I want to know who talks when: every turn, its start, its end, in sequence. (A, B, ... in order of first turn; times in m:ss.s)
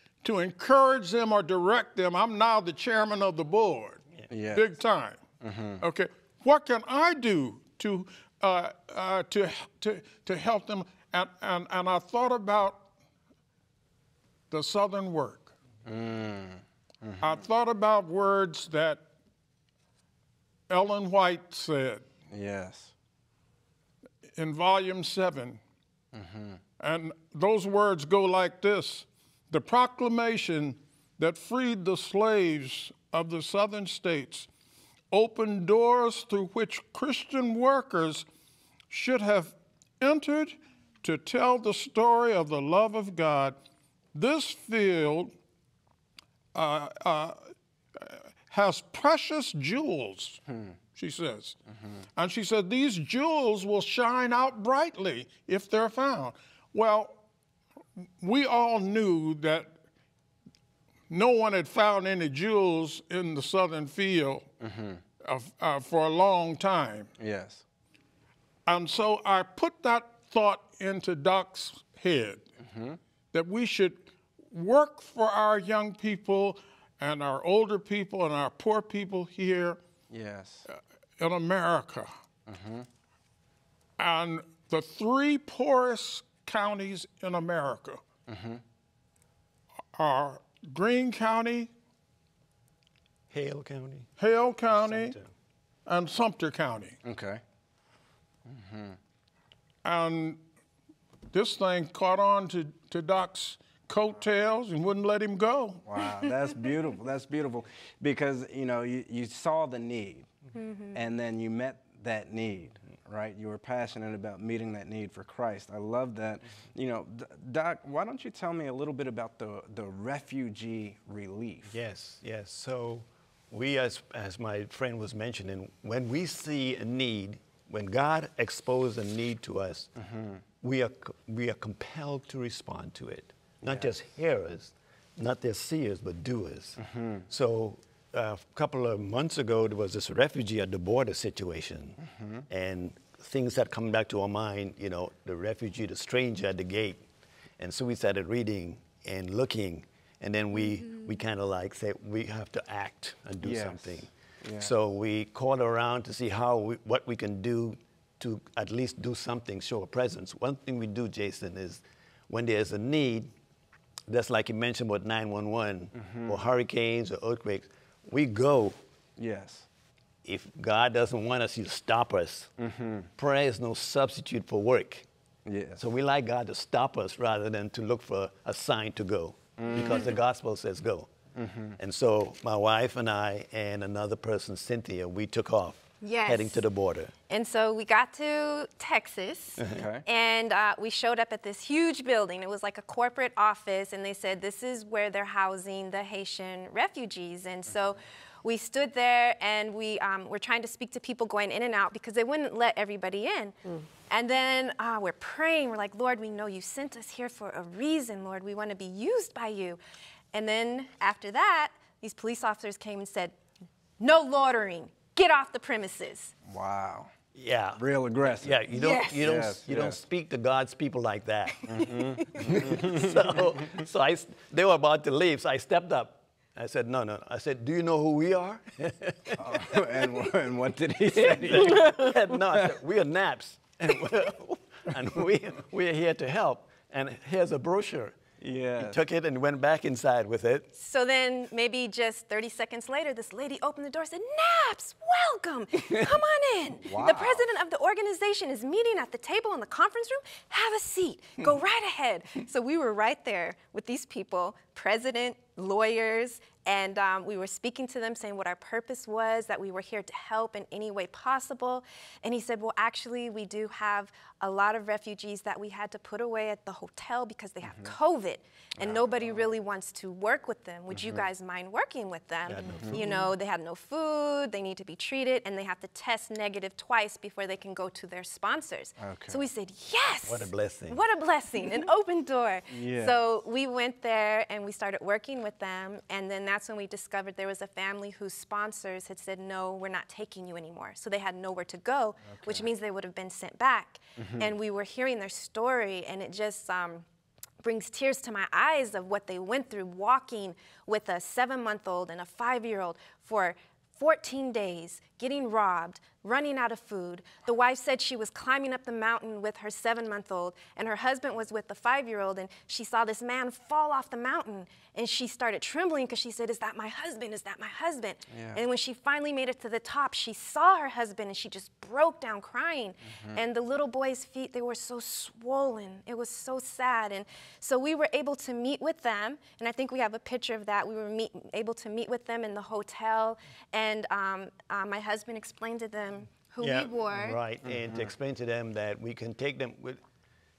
0:00.2-0:05.3 A
0:04.3-0:04.7 B
0:05.4-0:05.8 B
0:05.8-0:12.9 A
0:14.5-0:15.5 A
0:15.8-0:17.4 B
0:17.2-0:19.0 A
0:20.7-0:22.1 A
0:22.3-0:22.9 B
0:24.4-0:25.6 A
0:26.1-0:26.6 B
0:26.8-0:34.5 A
0:35.1-0:38.3 A
0:38.9-0:43.6 A
0:44.1-0:45.4 A
0:46.5-0:50.4 A
0:50.5-0:50.8 B
0:51.0-0:51.6 A
0:51.7-0:52.0 B
0:52.2-0:57.2 A
0:58.2-0:59.8 A
1:01.1-1:04.5 A
1:04.6-1:05.0 B
1:05.2-1:07.1 A
1:07.2-1:07.6 B
1:08.7-1:12.5 A
1:12.6-1:13.0 B
1:13.3-1:19.8 A
1:20.1-1:20.7 B
1:20.7-1:22.1 A
1:22.5-1:22.9 B
1:24.0-1:28.0 A
1:28.3-1:28.6 B
1:30.0-1:31.7 A
1:33.3-1:34.1 C
1:34.2-1:35.2 A
1:34.7-1:35.3 C
1:35.9-1:37.0 A
1:37.0-1:37.4 B
1:38.5-1:39.0 B
1:39.8-1:40.4 A
1:41.3-1:45.8 A
1:45.9-1:50.3 B
1:50.6-1:50.9 D
1:50.9-2:01.8 B
2:01.7-2:09.9 C
2:10.0-2:10.4 B
2:10.6-2:27.0 C
2:13.6-2:13.9 B
2:16.8-2:17.2 B
2:22.0-2:22.4 B
2:27.6-2:43.3 C
2:33.4-2:34.7 B
2:44.1-2:48.8 C
2:46.0-2:46.4 B
2:49.2-2:49.7 B
2:50.2-2:52.5 C
2:52.6-2:53.1 B
2:53.2-2:55.1 C
2:55.5-2:55.8 B
2:55.8-3:01.1 C
2:59.6-3:00.1 B
3:01.4-3:01.8 B
3:01.8-3:07.1 C
3:06.0-3:06.6 D
3:07.3-3:29.8 D
3:09.7-3:10.0 B
3:30.3-3:33.4 D
3:34.0-3:36.3 D
3:36.5-3:37.1 B
3:37.4-3:37.8 C
3:37.8-3:38.6 B
3:38.4-3:41.7 C
3:39.2-3:40.0 B
3:41.7-3:43.6 B
3:42.2-3:49.8 C
3:49.4-3:51.9 B
3:51.1-3:58.2 C
3:58.4-3:59.0 B
3:58.8-4:00.7 C
4:00.8-4:57.0 D
4:06.8-4:07.5 B
4:27.6-4:27.9 B
4:28.8-4:29.4 B
4:30.9-4:31.2 B
4:32.5-4:33.2 C
4:32.7-4:33.2 B
4:39.0-4:39.4 B
4:40.2-4:41.0 C
4:42.7-4:43.2 B
4:52.2-4:52.7 B
4:54.2-4:54.5 B
4:57.6-5:37.4 D
5:18.3-5:18.6 B
5:23.2-5:23.4 B
5:36.6-5:40.0 C
5:37.6-5:38.1 B